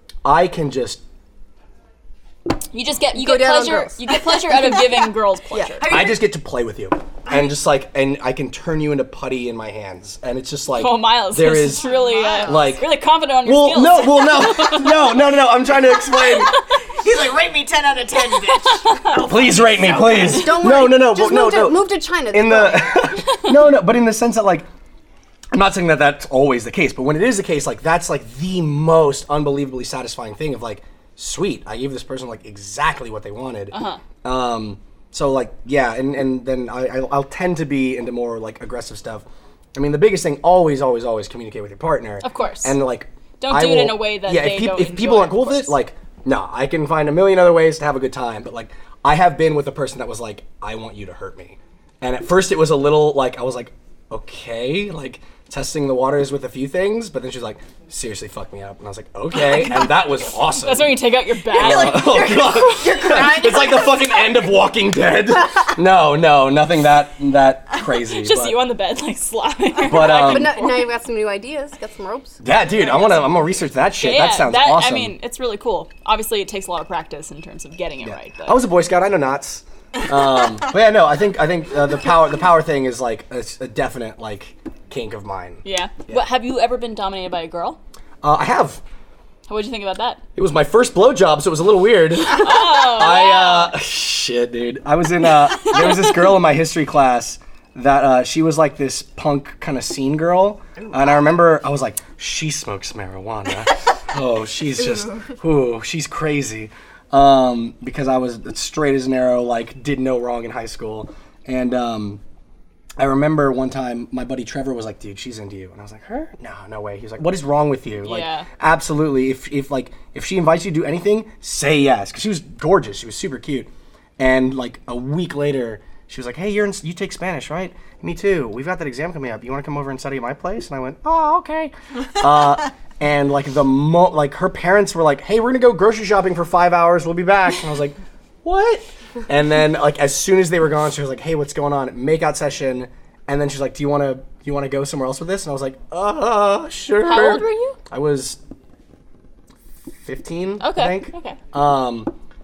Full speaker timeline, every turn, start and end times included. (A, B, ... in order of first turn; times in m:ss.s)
0:00.2-0:01.0 A
0:02.7-0:06.1 B
0:03.1-0:05.0 C
0:05.5-0:06.0 C
0:05.8-0:06.2 D
0:05.8-0:12.9 A
0:10.8-0:15.3 B
0:11.7-0:12.8 D
0:13.4-0:16.5 A
0:16.1-0:20.6 D
0:18.3-0:19.3 B
0:19.2-0:24.7 A
0:19.9-0:23.2 C
0:23.2-0:23.6 B
0:25.5-1:01.0 A
0:33.7-0:34.0 B
0:42.2-0:42.8 B
0:43.4-0:45.8 B
1:00.4-1:02.3 B
1:01.5-1:04.5 D
1:01.5-1:08.6 A
1:08.2-1:10.9 B
1:09.8-1:10.6 A
1:10.0-1:12.4 C
1:12.4-1:15.2 A
1:12.8-1:13.3 B
1:14.0-1:18.6 B
1:18.0-1:26.2 A
1:25.6-1:27.8 B
1:28.2-1:28.8 A
1:29.5-1:30.2 B
1:30.4-1:52.2 A
1:32.3-1:33.7 B
1:35.6-1:36.2 B
1:40.8-1:41.3 D
1:44.8-1:45.3 D
1:53.0-2:28.4 A
1:58.0-1:58.5 B
2:27.0-2:27.8 B
2:30.0-2:32.1 A
2:30.6-2:31.4 B